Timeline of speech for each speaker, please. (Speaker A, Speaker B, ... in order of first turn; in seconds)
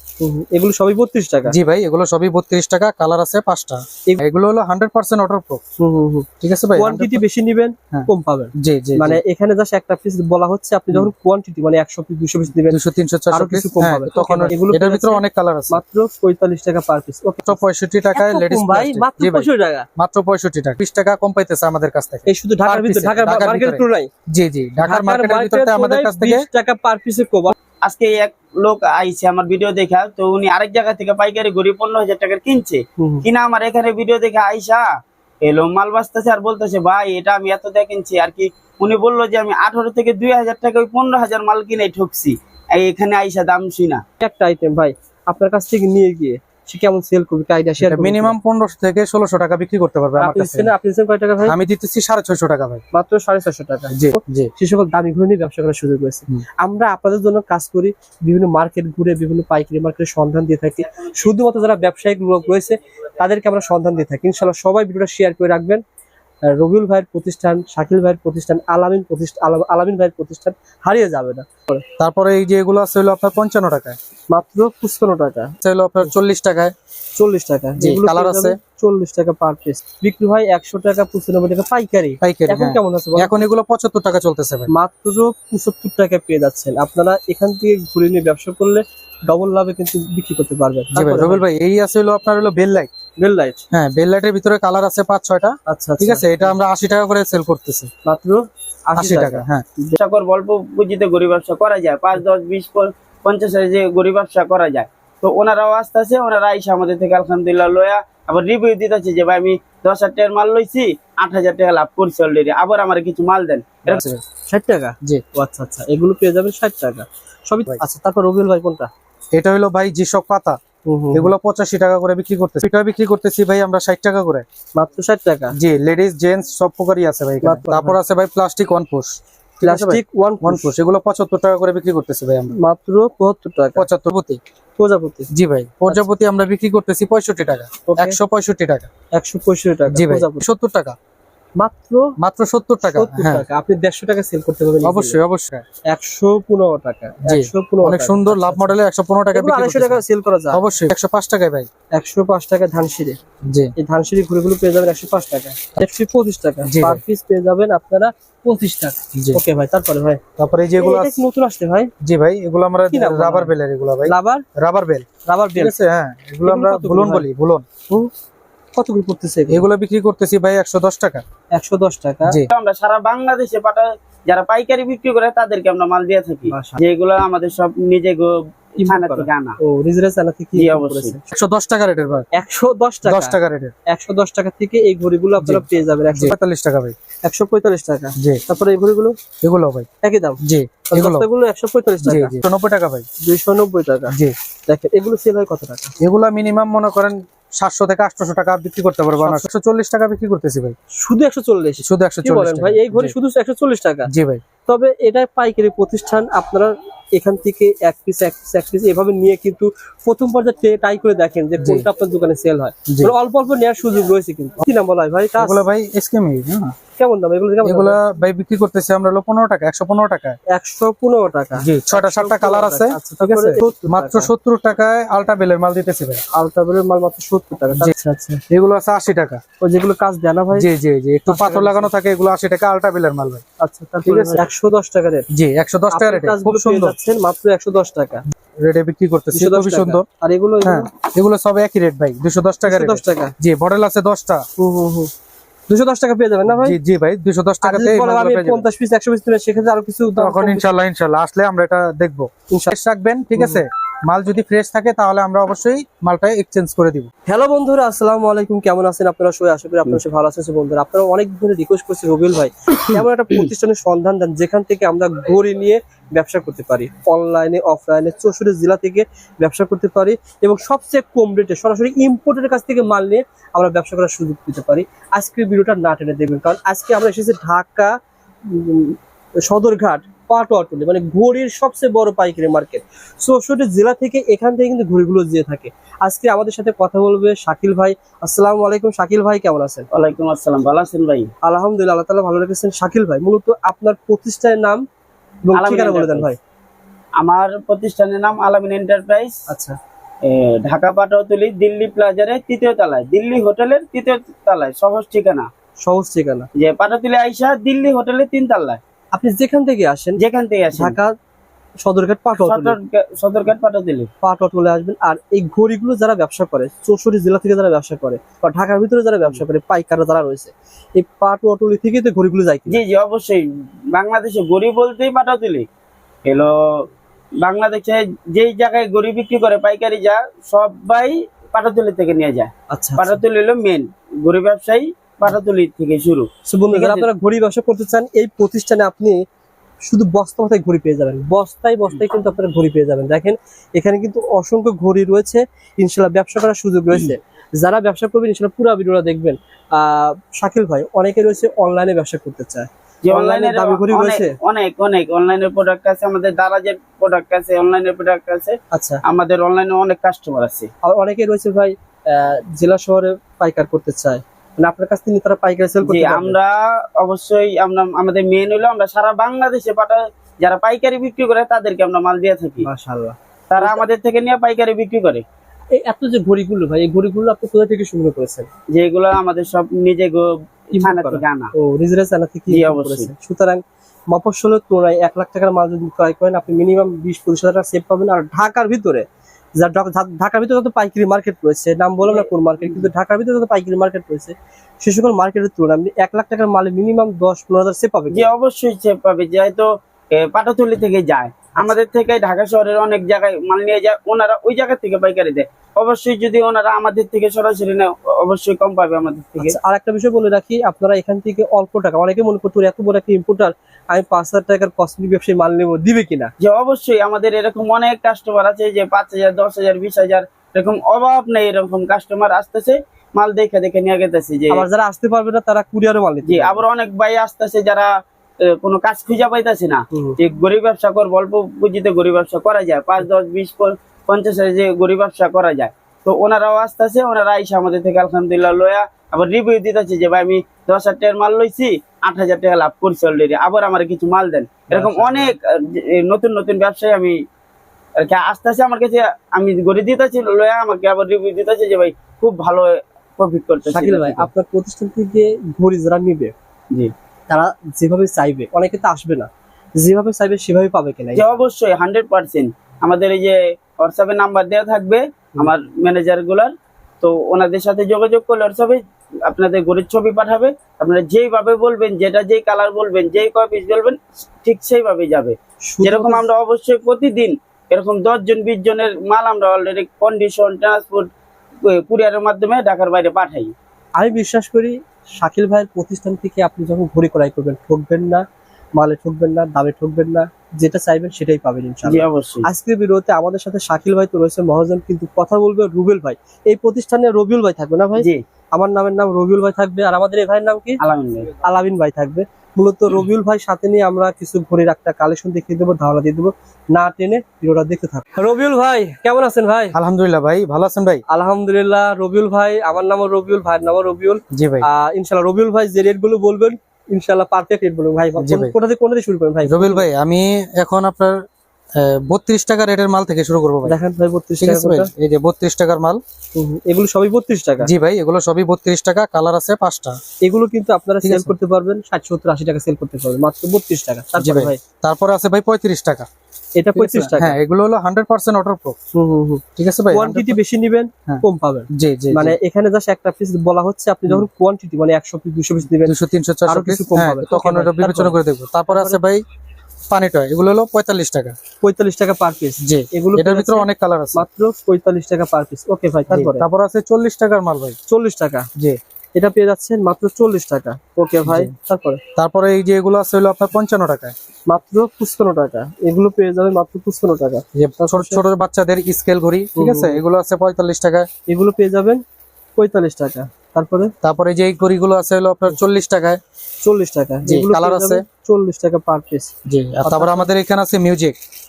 Speaker A: 0.2-1.6, 5.8-12.8, 13.3-17.6, 18.1-19.9, 22.2-24.1, 24.8-27.5, 33.0-33.3, 44.2-48.3, 50.1-51.6, 52.9-65.8, 66.4-71.8, 74.3-75.5, 77.2-83.3, 84.7-91.4, 93.2-93.6, 95.7-96.5, 98.0-100.0, 113.9-118.9, 120.8-121.3, 124.8-125.5, 127.4-128.0, 129.6-130.7, 132.6-133.8, 134.8-135.3, 137.8-138.2, 139.1-140.4, 141.6-142.1, 142.8-145.2, 145.9-148.7, 149.3-150.6, 151.9-153.2, 153.8-160.2, 160.8-161.9, 162.9-163.5, 164.0-164.4, 165.2-165.7, 166.4-167.3, 168.8-169.7, 171.5-172.4, 176.5-176.8, 178.8-181.2, 182.3-186.3, 187.2-189.2, 190.0-192.4, 193.2-194.2, 194.7-195.9, 199.2-199.5, 200.9-204.1, 204.7-215.6, 216.9-218.0, 220.5-224.3, 226.3-228.4, 229.6-230.7, 231.3-231.9, 233.6-235.3, 235.9-238.2, 239.3-240.9, 242.7-243.3, 244.6-245.1, 245.7-246.8, 247.6-250.7, 257.3-289.8, 291.4-294.8, 295.4-296.4, 299.5-299.8, 305.8-306.5, 309.1-310.2, 310.7-311.1, 311.8-312.8, 314.2-322.8, 332.7-333.2, 336.5-339.2, 339.8-354.4, 358.7-359.0, 360.8-366.4, 372.6-373.8, 375.7-378.5, 380.7-389.1, 389.6-398.3, 409.4-416.3, 424.5-426.6, 429.9-430.2, 444.7-445.3, 453.7-456.3, 457.3-459.3, 459.8-461.3, 475.7-476.3, 484.0-488.2, 488.8-500.8, 501.4-509.8, 511.1-519.8, 523.6-524.9, 526.3-527.7, 530.2-534.6, 536.6-537.4, 538.9-548.1, 548.7-549.0, 551.6-556.5, 557.9-558.5, 559.1-562.0, 564.5-568.2, 569.5-570.0, 571.3-572.0, 572.5-573.9, 576.6-579.3, 579.8-580.3
Speaker B: 1.5-5.6, 6.4-7.2, 7.9-9.2, 12.7-15.8, 17.4-26.4, 47.8-50.7, 51.5-52.8, 53.9-54.5, 72.0-74.0, 75.6-76.7, 77.8-78.6, 82.2-84.7, 90.9-92.9, 93.7-97.9, 99.0-99.6, 113.9-114.2, 119.3-120.6, 121.1-124.5, 125.5-132.5, 133.8-134.4, 135.3-138.9, 139.9-140.9, 142.2-143.4, 144.8-145.6, 147.2-150.0, 150.5-151.7, 153.5-153.7, 156.6-157.0, 159.1-159.4, 160.4-161.2, 162.0-167.7, 169.5-171.2, 181.3-182.3, 183.0-183.7, 185.4-186.9, 189.4-189.9, 190.4-191.3, 192.0-193.1, 196.0-200.8, 201.8-203.1, 204.1-204.4, 211.6-211.9, 212.9-213.1, 215.4-216.8, 217.6-220.4, 221.6-226.2, 228.5-229.4, 230.5-233.4, 234.0-234.4, 235.3-236.9, 238.6-240.1, 240.6-244.4, 246.5-248.7, 250.2-257.1, 509.7-511.0, 514.3-514.7, 518.2-518.5, 519.5-521.2, 521.7-523.8, 524.4-526.0, 527.6-530.0, 531.0-531.3, 534.2-536.1, 536.7-538.8, 539.6-540.4, 541.1-542.4, 545.8-549.2, 549.9-551.3, 552.6-554.2, 556.1-557.7, 561.2-561.5, 562.1-564.1, 567.5-571.1, 574.0-576.2, 577.2-578.0, 579.5-581.2
Speaker C: 27.8-34.9, 35.4-44.0, 100.0-114.0, 172.5-179.6, 180.5-181.2, 289.9-291.3, 295.5-296.3, 297.2-299.4, 300.2-305.5, 306.6-308.8, 310.2-311.0, 312.4-314.1, 322.7-325.7, 326.2-326.9, 327.4-337.1, 353.1-360.7, 365.8-372.6, 373.5-375.2, 378.7-381.5, 382.5-383.1, 398.1-409.6, 416.4-424.6, 426.3-447.2, 448.0-454.3, 461.1-481.1, 481.6-483.5, 491.8-492.4, 498.0-498.2, 500.8-501.3